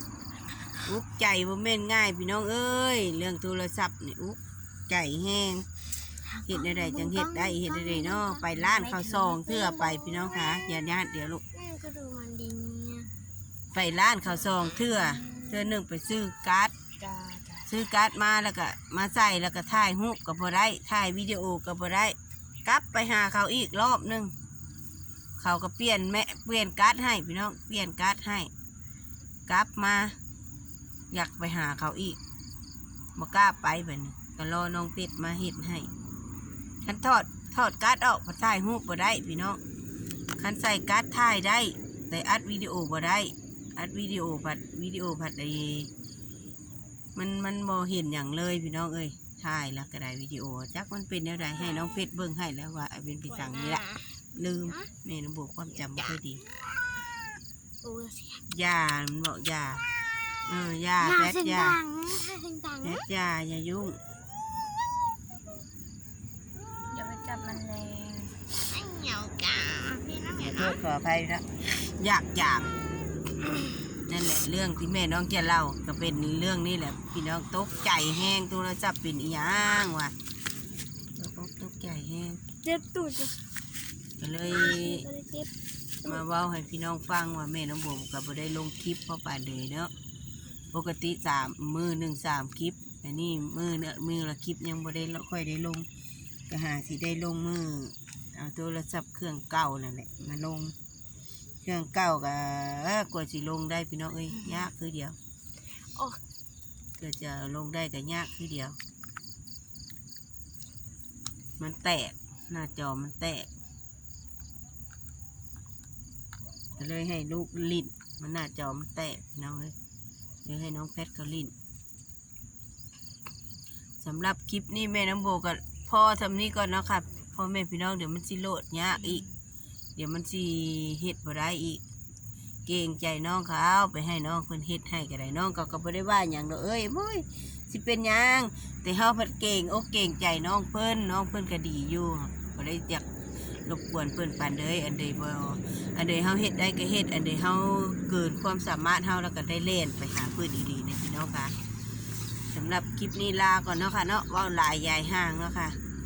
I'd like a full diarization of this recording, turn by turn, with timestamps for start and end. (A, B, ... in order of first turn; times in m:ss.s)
0:00.8-0:05.6 A
0:06.3-0:10.8 B
0:06.4-0:11.4 A
0:11.5-0:13.1 B
0:13.7-0:16.7 A
0:15.1-0:15.6 B
0:17.0-0:17.6 B
0:17.7-0:24.3 A
0:25.4-0:28.5 A
0:29.5-0:30.2 A
0:31.1-0:32.2 A
0:33.2-0:35.9 A
0:36.8-0:39.6 A
0:40.4-0:45.9 A
0:47.1-0:53.8 A
0:53.3-0:54.1 B
0:54.3-0:56.4 A
0:57.8-0:58.4 B
0:58.5-0:59.8 A
1:00.5-1:01.8 A
1:01.0-1:03.0 B
1:02.8-1:04.0 A
1:06.9-1:10.8 B
1:10.4-1:12.7 A
1:14.1-1:20.1 A
1:21.2-1:22.4 A
1:22.6-1:23.3 B
1:24.2-1:25.1 A
1:24.5-1:25.5 B
1:26.0-1:29.9 A
1:30.7-1:35.9 A
1:36.5-1:40.7 A
1:41.6-1:45.2 A
1:45.9-1:46.2 B
1:47.0-1:48.8 A
1:51.6-1:53.5 A
1:56.8-1:59.7 A
2:00.4-2:01.5 A
2:04.0-2:09.2 A
2:10.0-2:11.8 A
2:12.6-2:23.0 A
2:23.6-2:31.5 A
2:32.5-2:35.8 A